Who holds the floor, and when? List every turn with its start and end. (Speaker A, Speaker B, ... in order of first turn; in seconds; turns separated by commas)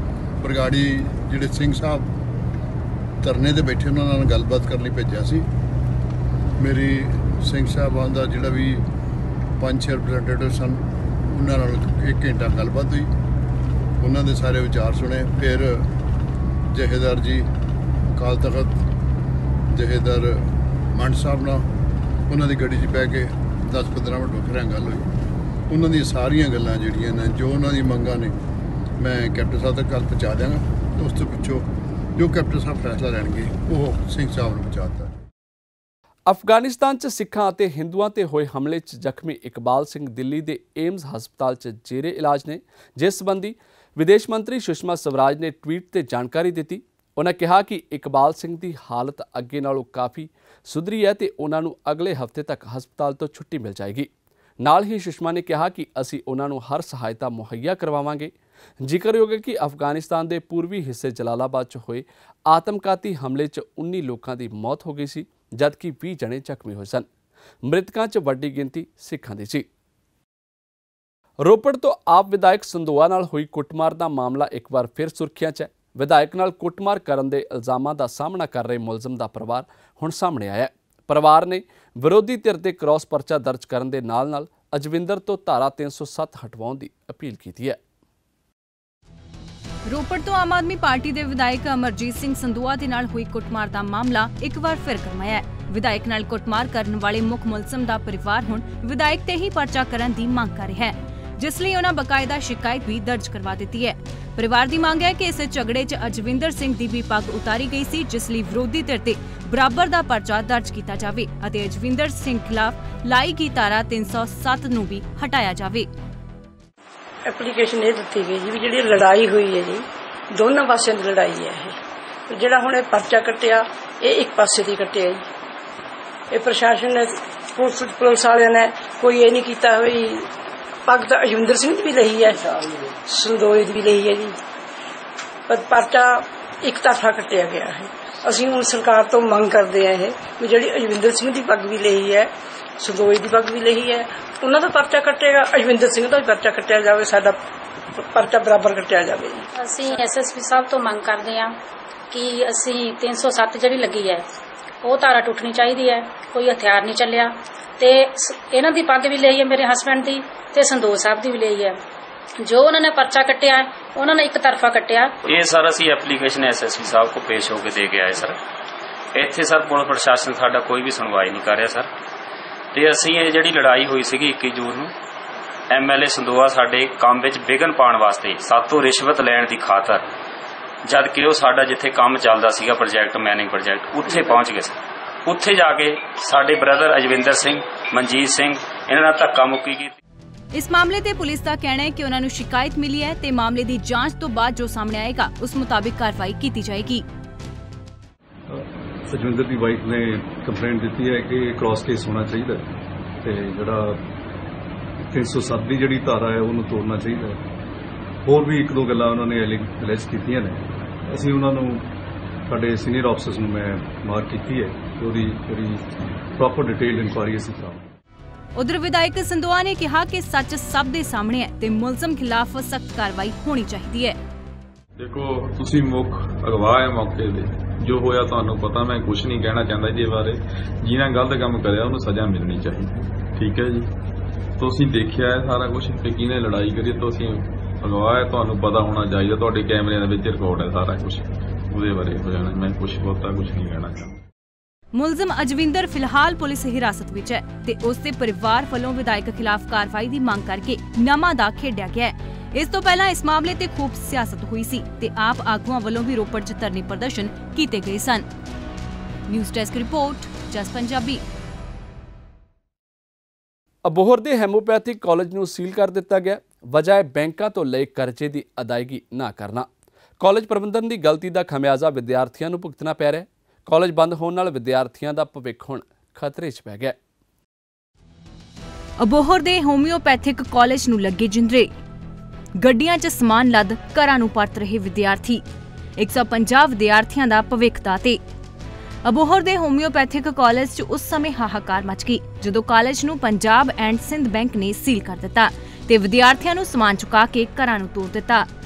Speaker A: 0.4-2.1, Speaker A: 3.2-5.5, Speaker A: 6.6-8.8, Speaker A: 9.6-13.1, Speaker A: 14.0-15.9, Speaker A: 16.7-17.5, Speaker A: 18.1-18.8, Speaker A: 19.7-21.6, Speaker A: 22.3-25.1, Speaker A: 25.7-28.3, Speaker A: 29.0-31.6, Speaker A: 32.2-35.1, Speaker B: 36.3-54.1, Speaker B: 54.6-58.3, Speaker B: 58.8-67.0, Speaker B: 67.6-69.6, Speaker B: 71.4-87.8, Speaker C: 89.9-115.9, Speaker D: 117.3-119.8, Speaker D: 120.4-121.7, Speaker D: 122.3-125.2, Speaker D: 126.3-130.2, Speaker D: 130.9-132.5, Speaker D: 133.1-134.3, Speaker D: 135.5-142.3, Speaker D: 142.8-147.4, Speaker D: 148.1-149.3, Speaker E: 149.6-151.5, Speaker E: 152.1-154.2, Speaker E: 154.8-161.8, Speaker E: 162.4-165.1, Speaker F: 165.2-168.4, Speaker F: 169.1-171.9, Speaker F: 172.7-174.9, Speaker F: 175.7-180.0, Speaker F: 180.8-189.9, Speaker C: 190.5-197.1, Speaker G: 198.5-204.0, Speaker G: 205.1-207.4, Speaker G: 208.2-211.9, Speaker G: 212.5-217.9, Speaker C: 218.6-224.2, Speaker H: 225.0-233.9, Speaker H: 234.6-244.2, Speaker C: 244.9-258.2, Speaker C: 259.3-261.2, Speaker B: 263.9-269.7, Speaker B: 270.2-276.9, Speaker C: 279.0-281.7, Speaker C: 282.6-285.4, Speaker C: 286.0-288.2, Speaker C: 289.0-298.5